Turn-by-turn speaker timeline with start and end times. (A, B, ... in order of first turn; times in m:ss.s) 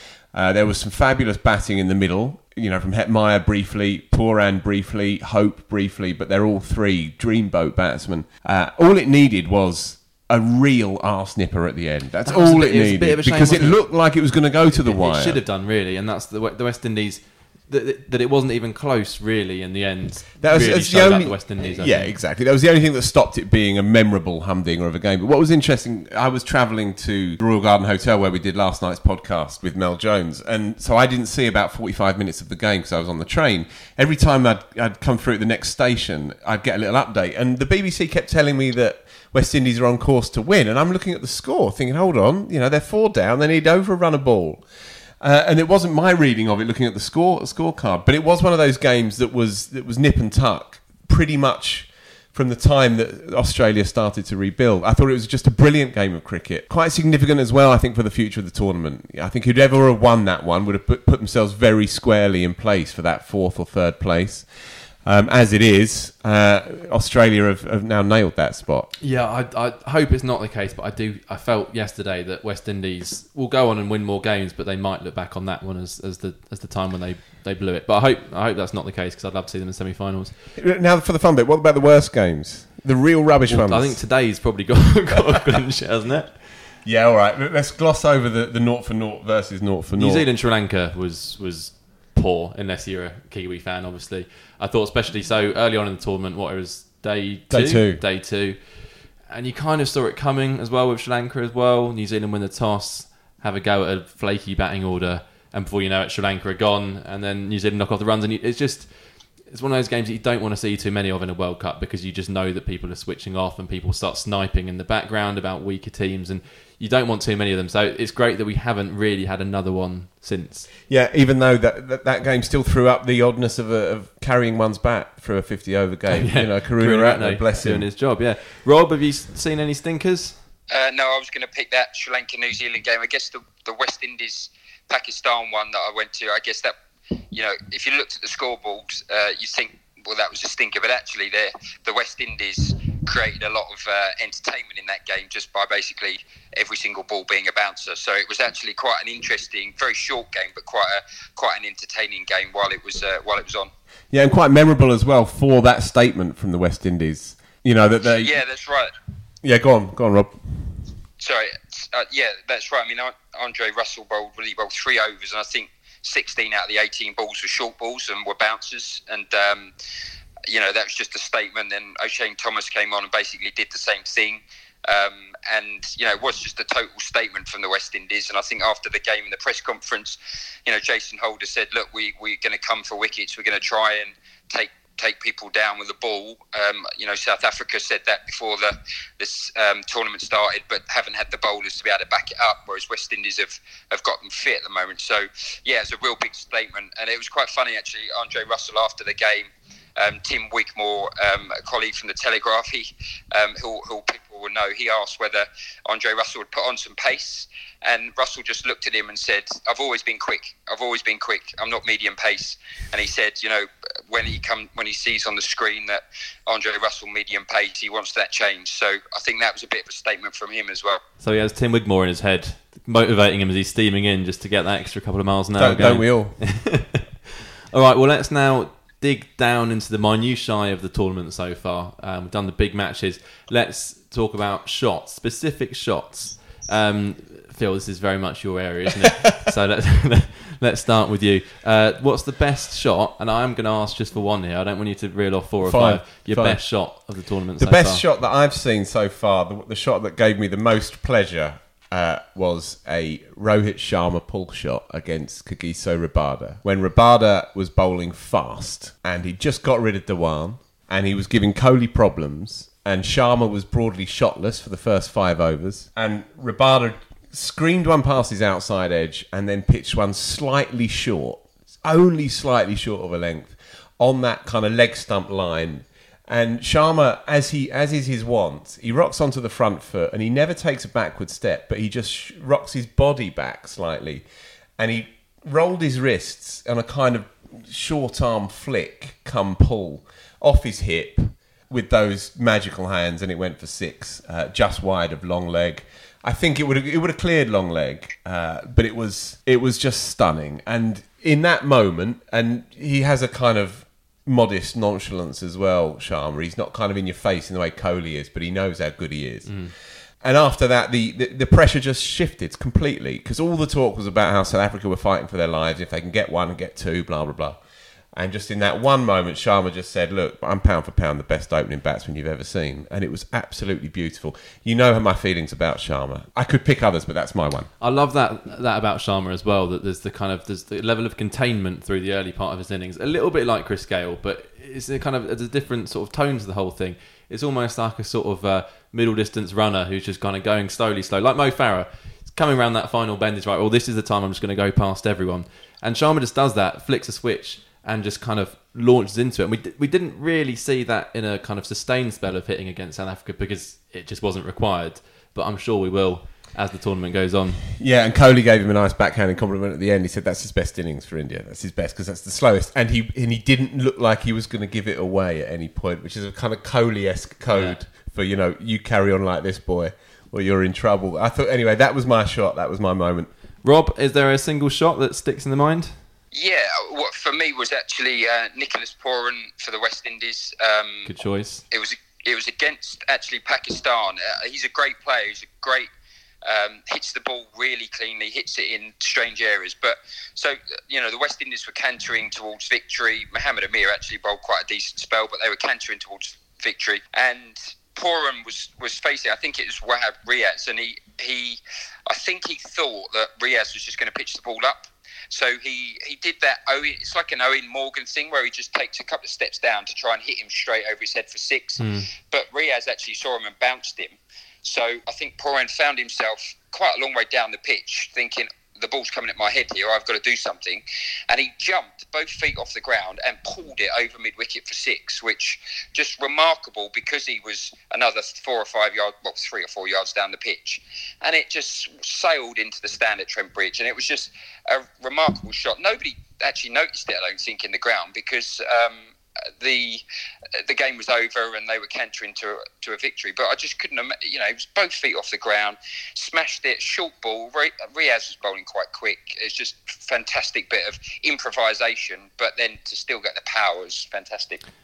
0:00.3-0:15.4 A
0:12.2-0:22.1 B
0:20.4-0:44.6 A
0:45.2-1:04.5 A
1:05.0-1:08.9 A
1:09.0-1:20.4 B
1:20.6-1:24.0 A
1:23.5-1:26.5 B
1:26.8-1:30.3 A
1:29.9-2:00.7 B
1:37.5-1:38.0 A
2:00.9-2:07.9 A
2:06.1-2:10.4 B
2:10.7-2:16.8 C
2:17.3-2:33.7 C
2:34.1-2:38.4 A
2:38.2-2:38.9 C
2:39.4-2:40.7 A
2:41.2-2:49.7 C
2:50.5-3:41.0 C
3:41.2-3:47.0 B
3:45.6-3:46.5 A
3:47.7-4:08.0 B
4:05.6-4:44.2 A
4:44.8-5:17.6 A
5:09.4-5:09.7 B
5:18.1-5:27.7 A
5:27.8-5:57.6 B
5:57.8-6:13.3 A
6:07.5-6:07.8 B
6:13.6-6:16.0 B
6:16.3-6:21.1 C
6:21.0-6:21.6 B
6:21.7-6:25.9 C
6:26.4-7:19.1 C
6:51.8-6:52.1 B
7:19.6-7:20.0 C
7:20.7-7:34.6 C